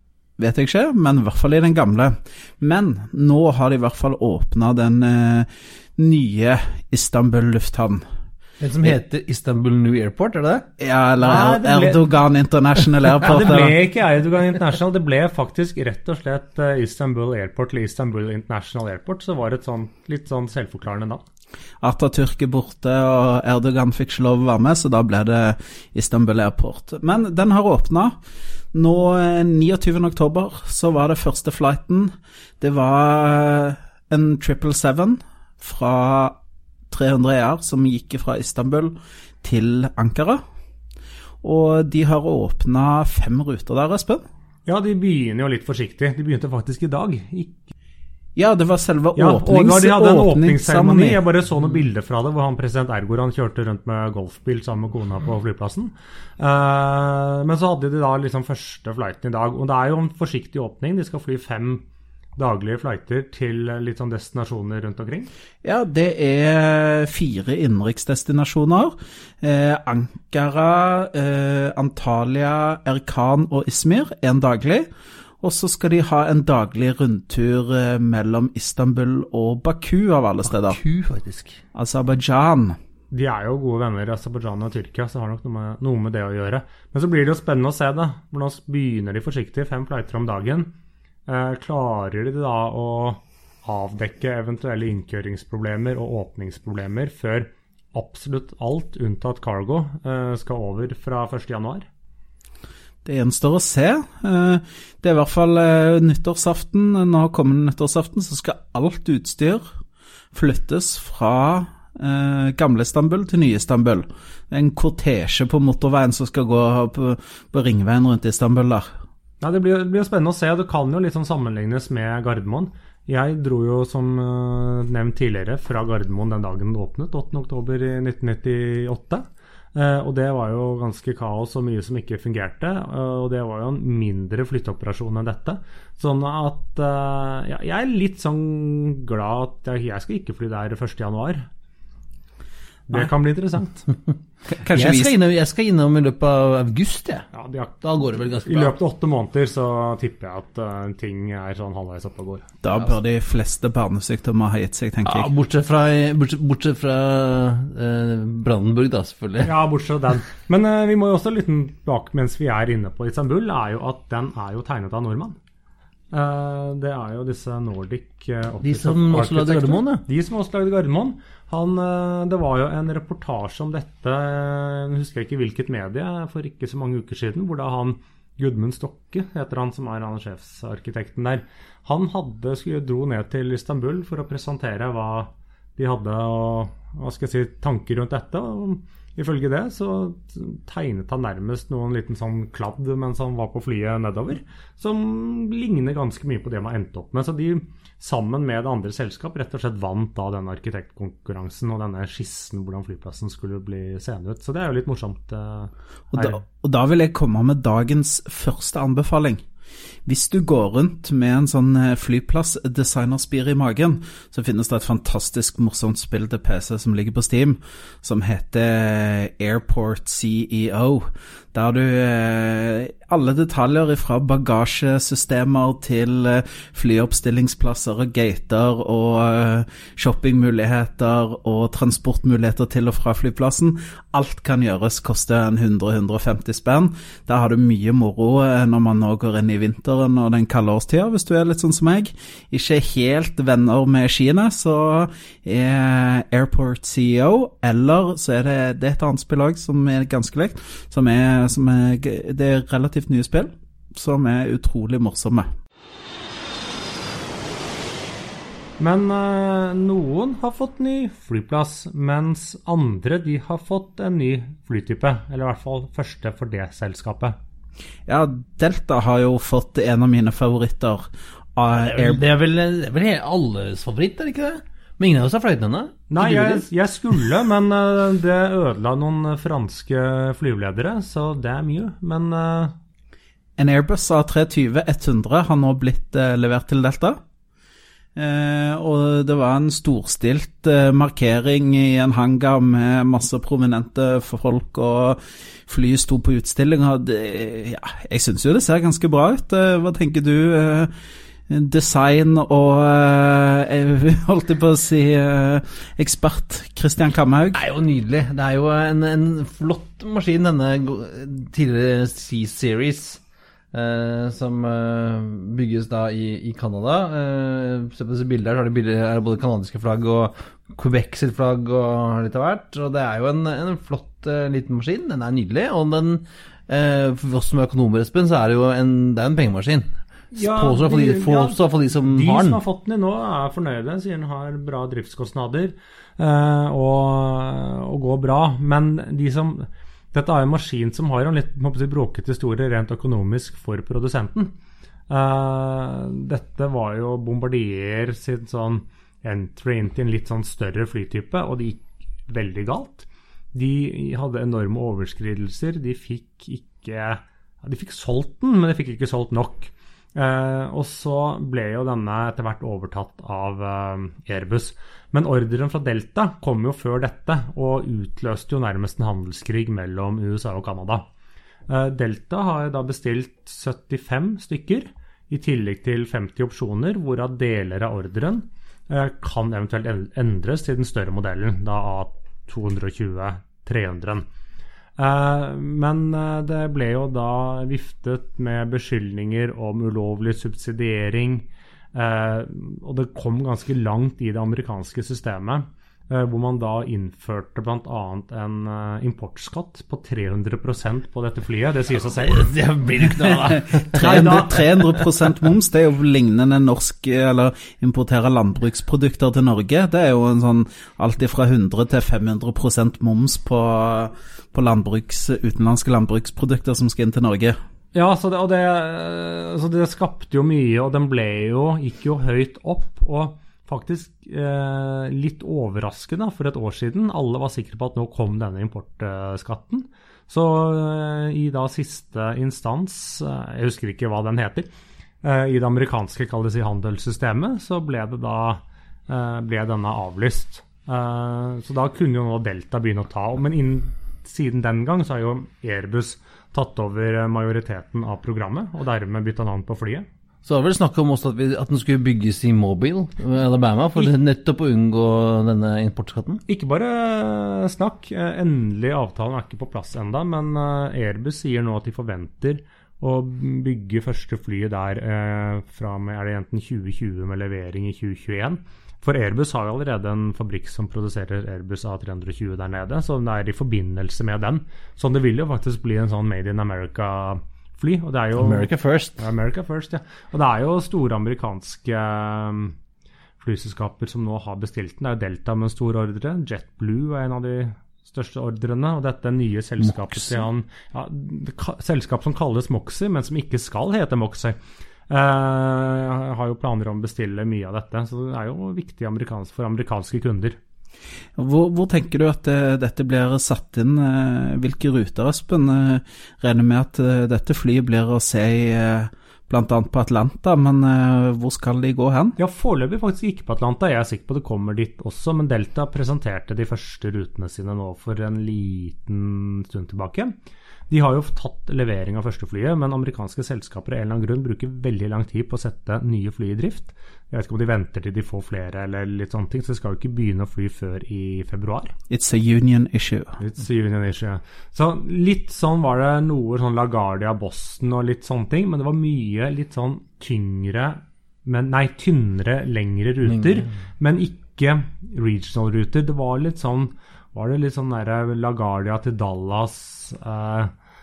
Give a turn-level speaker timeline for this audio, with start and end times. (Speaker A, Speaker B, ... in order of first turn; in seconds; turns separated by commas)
Speaker A: 0.4-8.0, Speaker B: 8.6-10.7, Speaker A: 10.8-13.8, Speaker C: 11.2-12.1, Speaker C: 13.2-21.2, Speaker A: 21.8-28.1, Speaker A: 28.7-36.4, Speaker A: 36.9-40.4, Speaker A: 41.4-44.2, Speaker C: 44.7-47.7, Speaker A: 48.4-51.2, Speaker C: 49.2-61.9, Speaker C: 62.4-65.3, Speaker A: 65.6-74.9, Speaker A: 75.4-80.8, Speaker B: 80.5-81.6, Speaker A: 81.7-82.8, Speaker C: 83.1-90.7, Speaker C: 91.3-101.9, Speaker A: 103.0-109.7, Speaker A: 110.3-118.9, Speaker C: 119.4-141.5, Speaker C: 142.9-143.9, Speaker A: 144.5-145.1, Speaker B: 144.7-147.3, Speaker C: 147.3-147.8, Speaker B: 147.8-148.8, Speaker C: 148.4-152.5, Speaker A: 152.6-155.3, Speaker B: 155.1-159.5, Speaker C: 159.4-165.4, Speaker C: 166.1-206.4, Speaker B: 168.6-170.0, Speaker A: 206.1-209.4, Speaker A: 210.1-255.5, Speaker C: 258.8-267.4, Speaker A: 268.1-272.2, Speaker B: 271.8-276.6, Speaker C: 276.1-282.8, Speaker A: 283.6-287.2, Speaker A: 288.2-300.9, Speaker A: 301.5-307.6, Speaker B: 307.5-313.2, Speaker B: 313.7-332.6, Speaker C: 330.3-344.5, Speaker C: 345.1-371.0, Speaker C: 371.7-384.2, Speaker C: 385.0-402.5, Speaker B: 402.2-405.1, Speaker A: 403.9-417.6, Speaker C: 404.0-404.5, Speaker C: 417.9-434.7, Speaker C: 435.2-450.1, Speaker B: 450.4-456.4, Speaker C: 456.5-478.7, Speaker B: 478.4-479.2, Speaker C: 479.2-482.8, Speaker C: 483.4-494.6, Speaker B: 489.8-490.4, Speaker C: 495.1-500.6, Speaker A: 501.4-512.4, Speaker C: 512.4-520.4, Speaker C: 520.9-531.9, Speaker A: 532.1-533.4, Speaker C: 533.4-550.7, Speaker B: 543.3-543.6